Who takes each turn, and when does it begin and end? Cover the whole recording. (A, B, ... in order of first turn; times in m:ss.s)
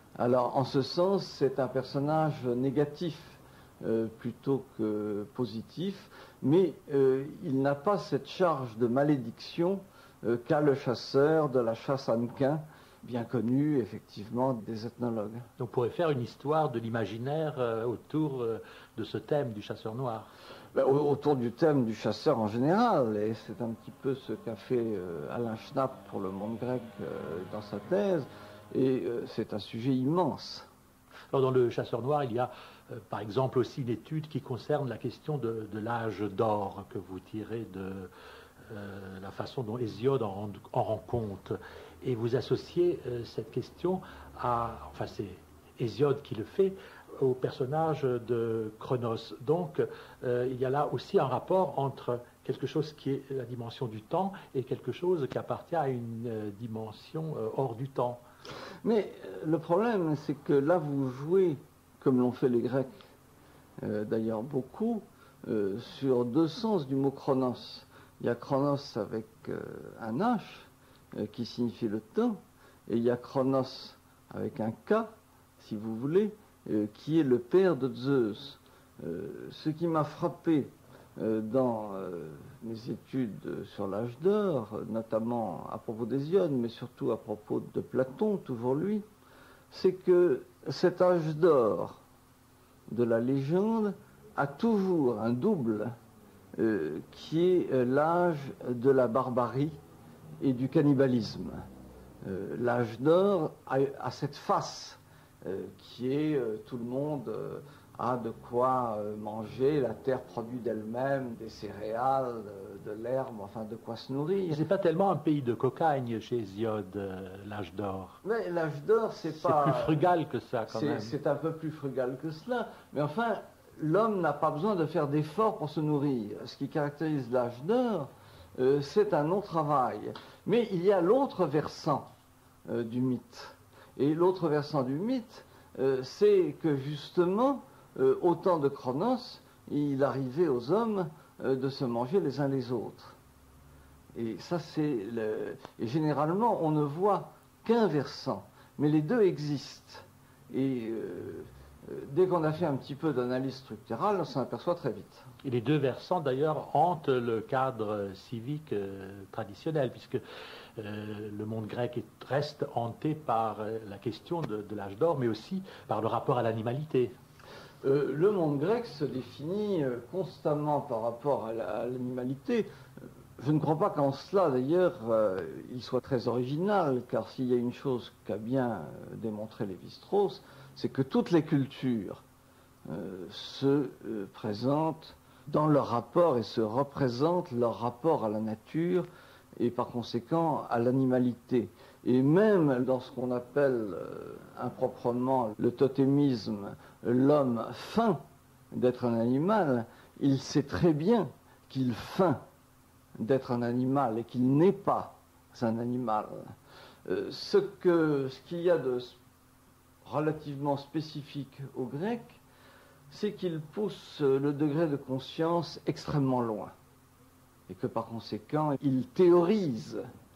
0:00.2-0:15.5 A
0:15.6-0:20.3 B
0:20.7-0:30.7 A
0:31.3-0:38.1 B
0:38.7-0:58.2 B
0:58.8-1:02.9 A
1:03.8-1:29.1 A
1:29.7-1:32.0 A
1:32.9-1:35.9 A
1:36.6-1:39.8 A
1:40.4-1:41.6 A
1:42.2-1:54.6 A
1:54.5-1:58.2 B
1:58.2-2:00.1 A
1:59.4-2:01.2 B
2:00.7-2:12.1 A
2:12.7-2:23.2 A
2:24.1-2:35.3 A
2:35.4-2:40.2 B
2:40.8-2:47.1 B
2:47.8-2:52.7 A
2:53.4-3:02.2 A
3:02.9-3:18.2 A
3:18.7-3:22.4 A
3:23.2-3:26.4 A
3:27.0-3:29.2 A
3:30.0-3:32.4 A
3:33.1-3:36.7 A
3:37.7-3:40.0 A